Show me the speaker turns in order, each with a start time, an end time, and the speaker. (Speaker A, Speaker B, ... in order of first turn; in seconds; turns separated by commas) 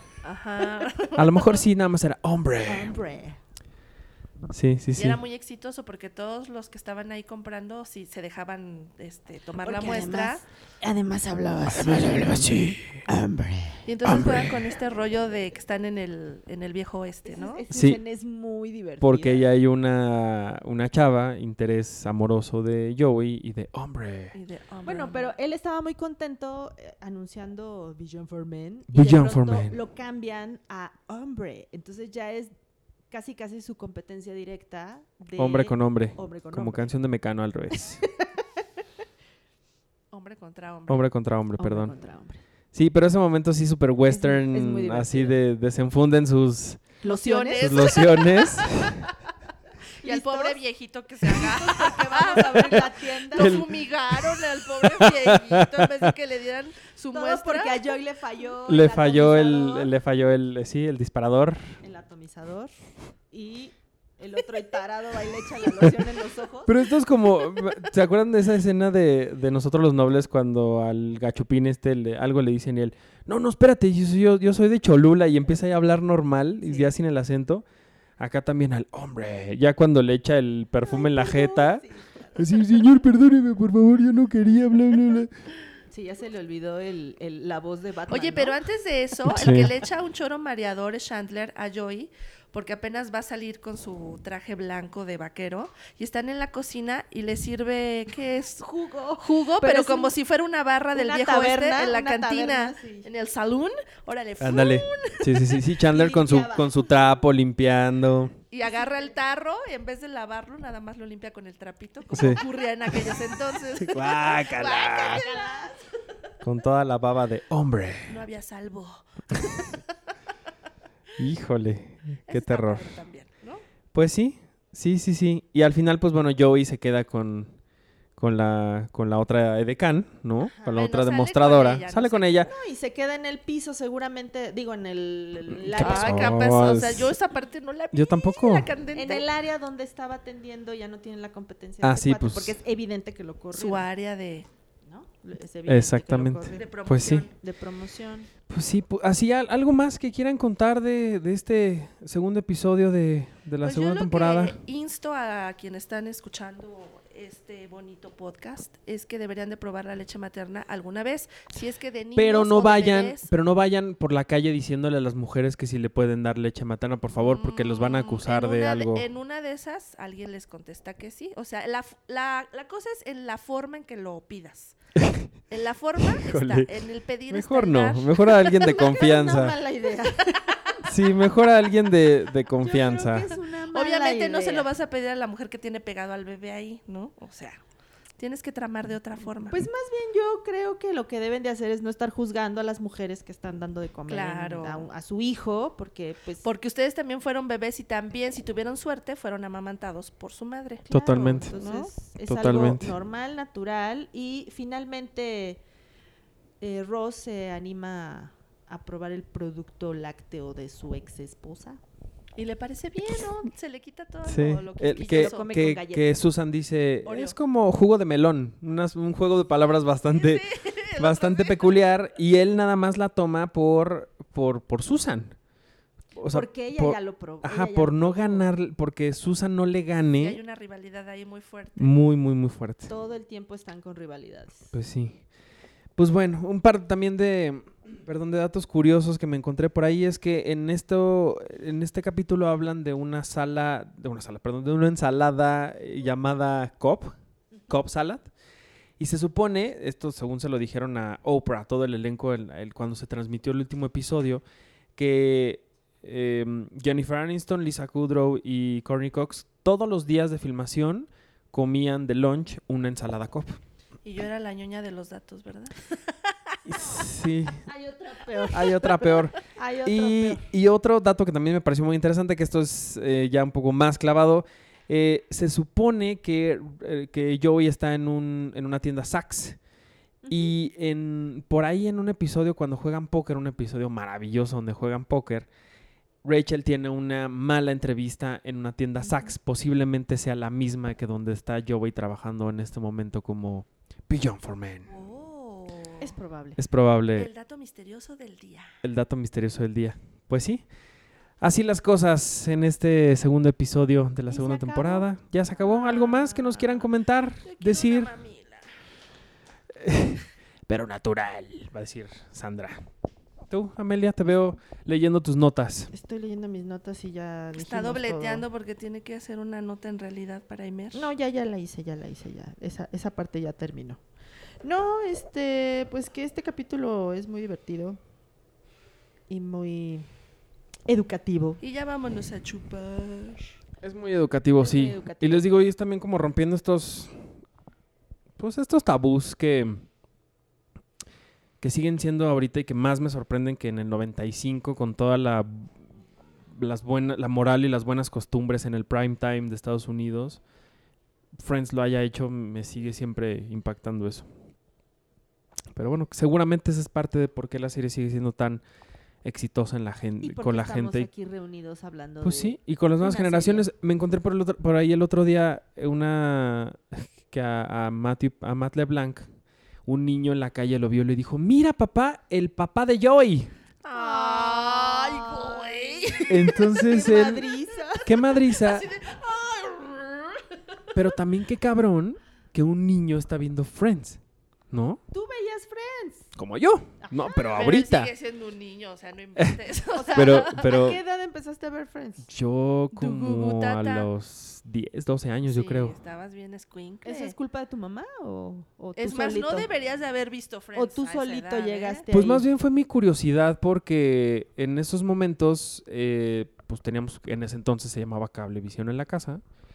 Speaker A: 0.2-1.6, Speaker B: 1.1-2.9, Speaker C: 2.6-3.4, Speaker B: 4.5-5.2, Speaker A: 5.0-10.4, Speaker C: 9.6-13.8, Speaker B: 12.1-13.0, Speaker A: 13.9-17.6, Speaker B: 14.1-14.5, Speaker C: 17.2-19.5, Speaker B: 17.7-18.0, Speaker B: 19.0-24.4, Speaker A: 24.3-25.3, Speaker C: 24.9-32.5, Speaker B: 28.9-29.8, Speaker C: 33.1-36.9, Speaker B: 35.4-38.0, Speaker C: 38.1-38.4, Speaker A: 40.1-41.1, Speaker B: 40.9-41.9, Speaker C: 41.6-42.4, Speaker B: 42.7-46.9, Speaker C: 44.1-45.4, Speaker C: 47.0-48.2, Speaker A: 47.1-48.9, Speaker B: 47.6-49.0, Speaker C: 50.0-50.6, Speaker A: 50.0-57.9, Speaker C: 51.2-53.6, Speaker B: 53.4-53.7, Speaker B: 55.0-56.1, Speaker C: 57.1-59.9, Speaker B: 58.7-61.6, Speaker C: 61.8-62.7, Speaker C: 63.3-66.9, Speaker B: 66.7-77.6, Speaker C: 76.6-76.9, Speaker B: 78.2-85.3, Speaker C: 80.8-82.6, Speaker C: 85.9-88.6, Speaker A: 88.1-105.6, Speaker B: 89.2-89.8, Speaker C: 98.6-100.1, Speaker C: 100.9-103.1, Speaker B: 104.4-108.4, Speaker C: 105.9-107.2, Speaker A: 108.5-115.4, Speaker B: 112.1-112.4, Speaker B: 113.8-115.2, Speaker C: 114.6-115.8, Speaker B: 116.4-118.2, Speaker A: 118.1-119.8, Speaker B: 121.2-123.0, Speaker A: 122.3-123.6, Speaker B: 123.9-127.5, Speaker B: 128.2-132.5, Speaker C: 130.4-130.8, Speaker A: 130.7-132.5, Speaker C: 132.4-136.4, Speaker B: 135.5-137.1, Speaker A: 135.8-139.3, Speaker B: 137.9-138.7, Speaker C: 138.9-143.9, Speaker B: 141.8-142.6, Speaker A: 143.5-144.5, Speaker C: 144.9-146.7, Speaker B: 145.7-147.3, Speaker A: 146.5-147.3, Speaker C: 147.3-148.3, Speaker B: 148.5-154.6, Speaker A: 153.6-163.3, Speaker B: 162.2-169.1, Speaker A: 167.1-174.8, Speaker B: 174.9-175.3, Speaker A: 175.5-178.8, Speaker B: 176.0-176.7, Speaker B: 177.3-179.6, Speaker C: 178.6-180.8, Speaker B: 180.8-183.3, Speaker C: 182.6-184.7, Speaker A: 183.7-187.6, Speaker A: 188.2-189.7, Speaker C: 189.5-196.4, Speaker A: 194.1-194.9, Speaker A: 196.4-200.9, Speaker C: 200.9-205.6, Speaker B: 200.9-201.6, Speaker A: 201.6-201.9, Speaker B: 202.3-202.9, Speaker C: 206.6-211.8, Speaker A: 212.4-215.7, Speaker B: 214.3-220.4, Speaker C: 215.1-216.2, Speaker A: 217.0-217.4, Speaker A: 220.1-221.7, Speaker B: 220.9-225.4, Speaker B: 226.2-230.4, Speaker C: 226.3-228.5, Speaker A: 230.2-231.9, Speaker B: 231.8-232.9, Speaker C: 232.9-234.7, Speaker B: 234.7-235.2, Speaker B: 235.9-247.1, Speaker B: 247.7-248.3, Speaker B: 249.0-254.4, Speaker B: 254.9-263.6, Speaker A: 264.0-266.3, Speaker B: 266.6-267.6, Speaker C: 267.6-270.4, Speaker B: 268.5-279.6, Speaker C: 280.2-280.5, Speaker B: 280.3-285.5, Speaker B: 286.2-294.9, Speaker A: 294.9-296.1, Speaker C: 296.0-296.6, Speaker B: 296.6-297.3, Speaker A: 297.1-298.8, Speaker B: 298.8-300.6, Speaker B: 301.4-308.1, Speaker C: 304.3-305.1, Speaker A: 305.5-306.9, Speaker A: 307.4-308.7, Speaker B: 309.8-312.9, Speaker B: 313.5-315.9, Speaker C: 315.9-318.4, Speaker A: 317.6-321.0, Speaker C: 320.9-324.0, Speaker C: 324.6-328.0, Speaker C: 329.3-330.1, Speaker C: 330.9-331.6, Speaker A: 331.6-333.5, Speaker B: 333.8-337.2, Speaker C: 334.6-335.5, Speaker B: 338.4-339.8, Speaker B: 341.6-345.7, Speaker B: 346.5-350.4, Speaker B: 351.4-354.3, Speaker B: 355.7-358.6, Speaker B: 359.2-361.1, Speaker C: 360.2-363.6, Speaker B: 362.2-369.3, Speaker B: 369.9-373.5, Speaker A: 373.8-376.8, Speaker C: 373.9-378.1, Speaker B: 376.3-377.5, Speaker A: 377.9-380.9, Speaker B: 378.0-378.9, Speaker B: 380.9-384.2, Speaker B: 384.7-385.0, Speaker C: 385.1-386.3, Speaker B: 386.4-388.1, Speaker C: 387.0-387.6, Speaker A: 387.5-390.9, Speaker C: 389.9-392.3, Speaker B: 390.1-391.0, Speaker B: 392.3-396.0, Speaker A: 392.9-394.1, Speaker A: 395.4-397.4, Speaker C: 397.1-399.7, Speaker A: 399.0-402.0, Speaker C: 400.7-402.4, Speaker B: 402.1-409.4